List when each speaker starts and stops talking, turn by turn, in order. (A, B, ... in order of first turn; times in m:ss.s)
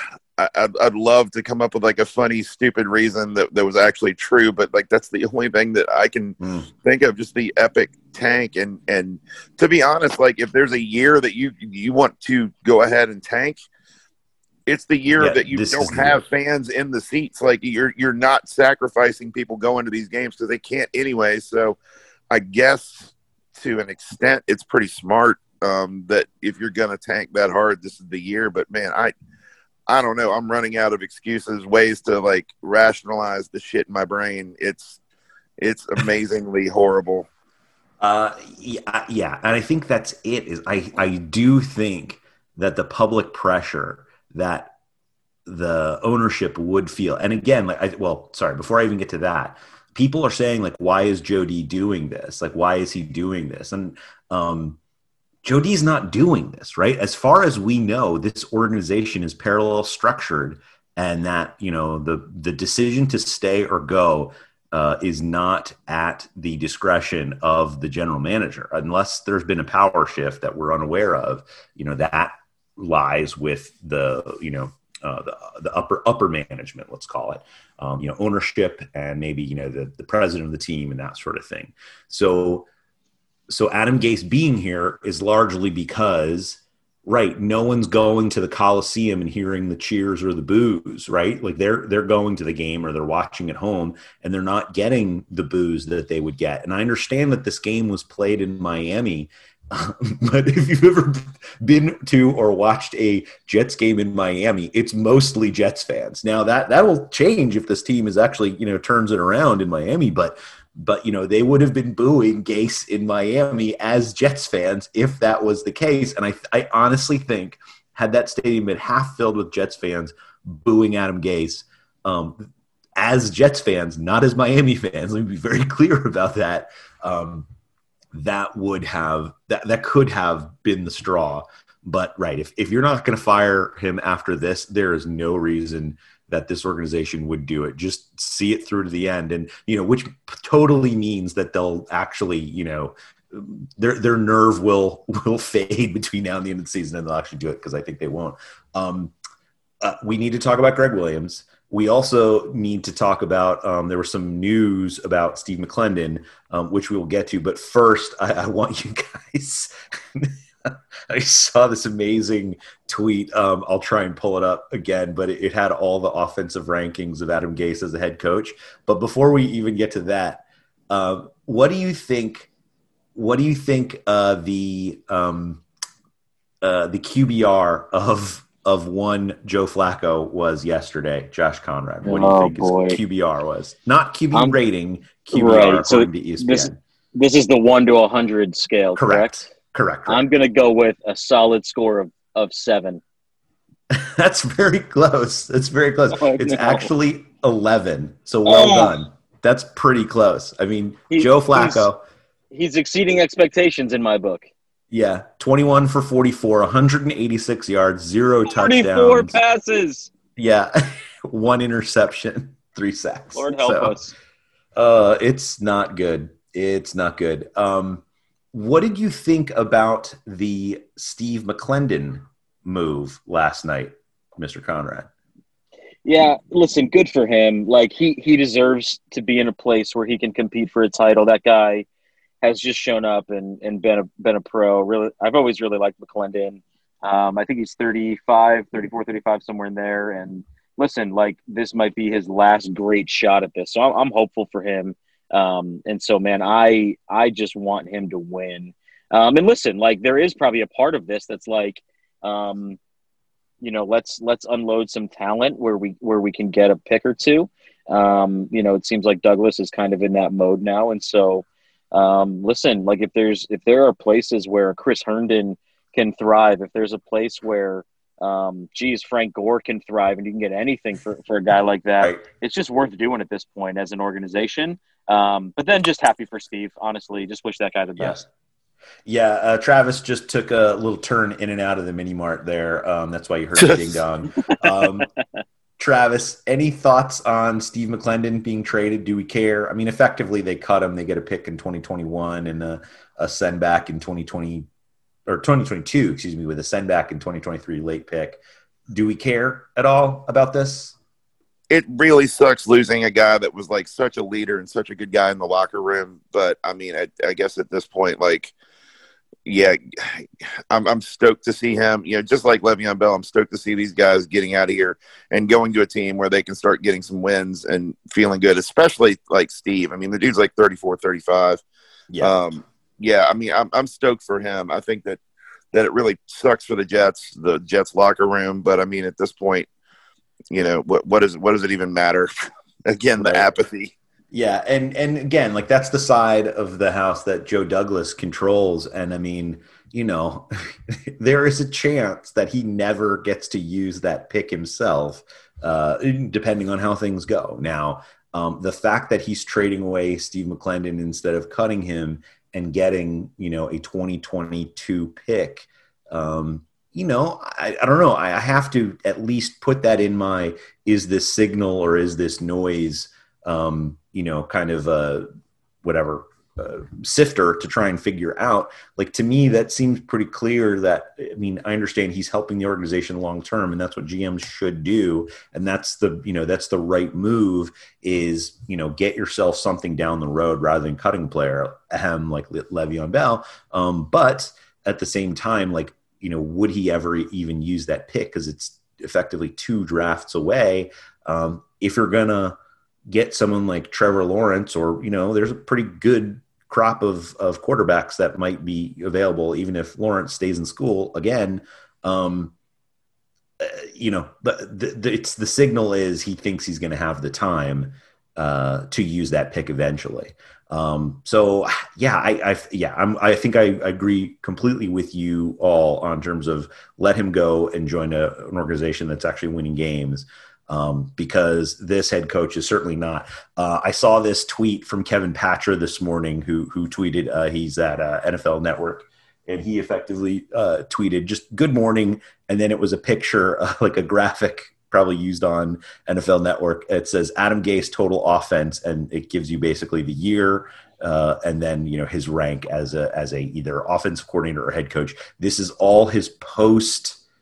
0:00.4-0:13.7 A
0:06.4-0:06.7 B
0:14.7-0:21.8 A
0:15.2-0:16.2 B
0:22.3-0:29.1 A
0:29.9-0:35.0 A
0:35.6-0:37.3 A
0:38.0-0:44.7 B
0:45.5-0:54.8 B
0:55.4-1:22.7 B
1:23.5-2:02.4 B
2:03.0-2:07.5 B
2:08.1-2:29.1 B
2:29.8-2:52.5 B
2:53.2-2:55.6 B
2:56.6-3:06.8 B
3:02.0-3:03.0 C
3:04.3-3:04.6 C
3:05.3-3:09.4 C
3:09.0-3:10.2 B
3:10.1-3:13.0 C
3:13.9-3:22.0 B
3:16.1-3:16.9 C
3:18.4-3:18.9 C
3:21.1-3:21.9 C
3:22.5-3:24.5 C
3:24.9-3:29.4 B
3:28.5-3:30.1 C
3:30.4-3:34.0 B
3:33.4-3:34.1 C
3:34.8-3:45.1 B
3:46.0-3:51.9 C
3:52.4-4:12.8 C
4:13.6-4:38.2 C
4:38.0-4:38.2 B
4:39.0-4:45.1 B
4:45.8-4:54.7 B
4:55.3-5:01.0 B
5:01.7-5:08.5 A
5:09.5-5:21.6 A
5:22.1-5:22.4 B
5:22.2-5:25.2 A
5:25.7-5:29.7 A
5:30.5-5:32.3 A
5:32.9-5:34.0 A
5:33.2-5:33.5 B
5:34.3-6:05.3 B
6:05.8-6:32.6 B
6:33.1-6:42.5 B
6:43.6-7:27.2 B